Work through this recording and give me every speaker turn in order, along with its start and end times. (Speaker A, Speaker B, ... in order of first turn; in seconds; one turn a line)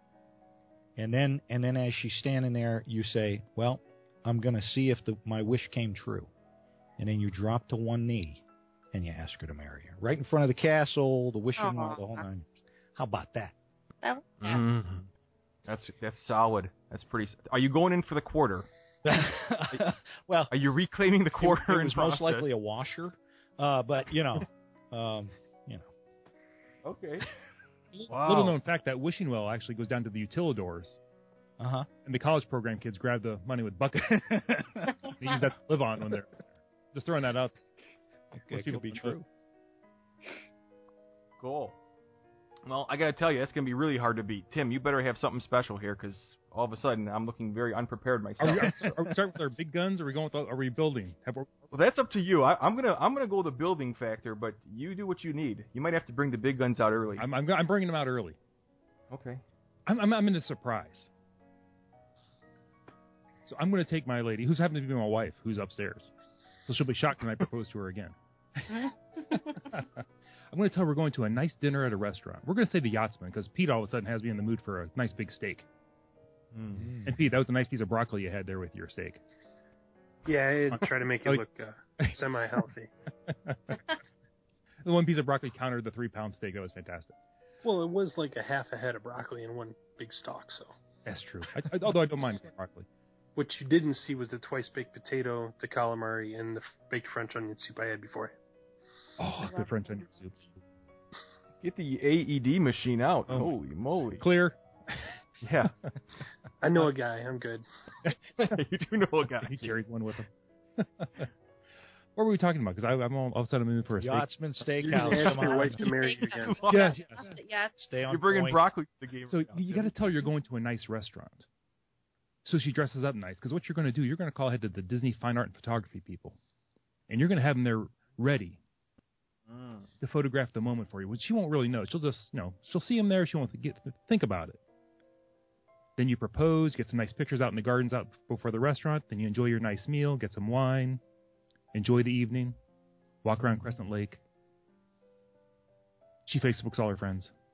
Speaker A: 0.9-6.3
Speaker A: 7.0-13.5
Speaker B: 11.6-12.2
Speaker B: 14.0-14.6
Speaker C: 14.4-15.1
Speaker C: 15.7-18.7
Speaker A: 19.0-20.5
Speaker C: 20.5-22.5
Speaker A: 21.4-25.9
Speaker C: 26.8-27.3
Speaker D: 27.9-31.0
Speaker C: 28.1-28.6
Speaker A: 31.6-31.9
Speaker D: 32.0-34.5
Speaker A: 34.0-34.9
Speaker D: 35.2-37.5
Speaker A: 38.4-39.2
Speaker D: 38.5-39.2
Speaker C: 41.4-41.8
Speaker C: 42.6-49.0
Speaker D: 48.4-51.5
Speaker C: 51.7-57.3
Speaker D: 57.2-58.4
Speaker C: 59.1-59.4
Speaker D: 59.9-61.1
Speaker D: 63.5-66.1
Speaker D: 66.7-75.7
Speaker B: 68.7-69.6
Speaker C: 76.5-76.9
Speaker A: 76.7-77.2
Speaker D: 77.0-79.2
Speaker E: 80.2-82.9
Speaker D: 80.7-81.4
Speaker D: 83.2-84.0
Speaker D: 84.8-87.2
Speaker E: 87.6-90.7
Speaker D: 91.0-92.9
Speaker E: 93.3-98.3
Speaker D: 99.2-100.5
Speaker B: 99.4-99.7
Speaker C: 101.6-104.2
Speaker D: 103.3-103.5
Speaker D: 104.2-105.2
Speaker C: 105.4-105.7
Speaker E: 106.6-107.6
Speaker D: 108.1-108.6
Speaker C: 108.4-109.8
Speaker D: 109.4-111.3
Speaker D: 112.2-114.9
Speaker A: 114.0-115.8
Speaker E: 114.8-116.7
Speaker B: 115.1-117.7
Speaker C: 116.4-116.8
Speaker D: 116.7-117.4
Speaker A: 117.8-118.6
Speaker C: 118.1-120.0
Speaker D: 119.3-121.5
Speaker D: 122.4-126.4
Speaker D: 127.1-128.6
Speaker C: 129.5-129.9
Speaker D: 130.0-134.6
Speaker D: 136.0-141.0
Speaker D: 141.7-142.6
Speaker D: 143.2-144.2
Speaker D: 146.2-147.3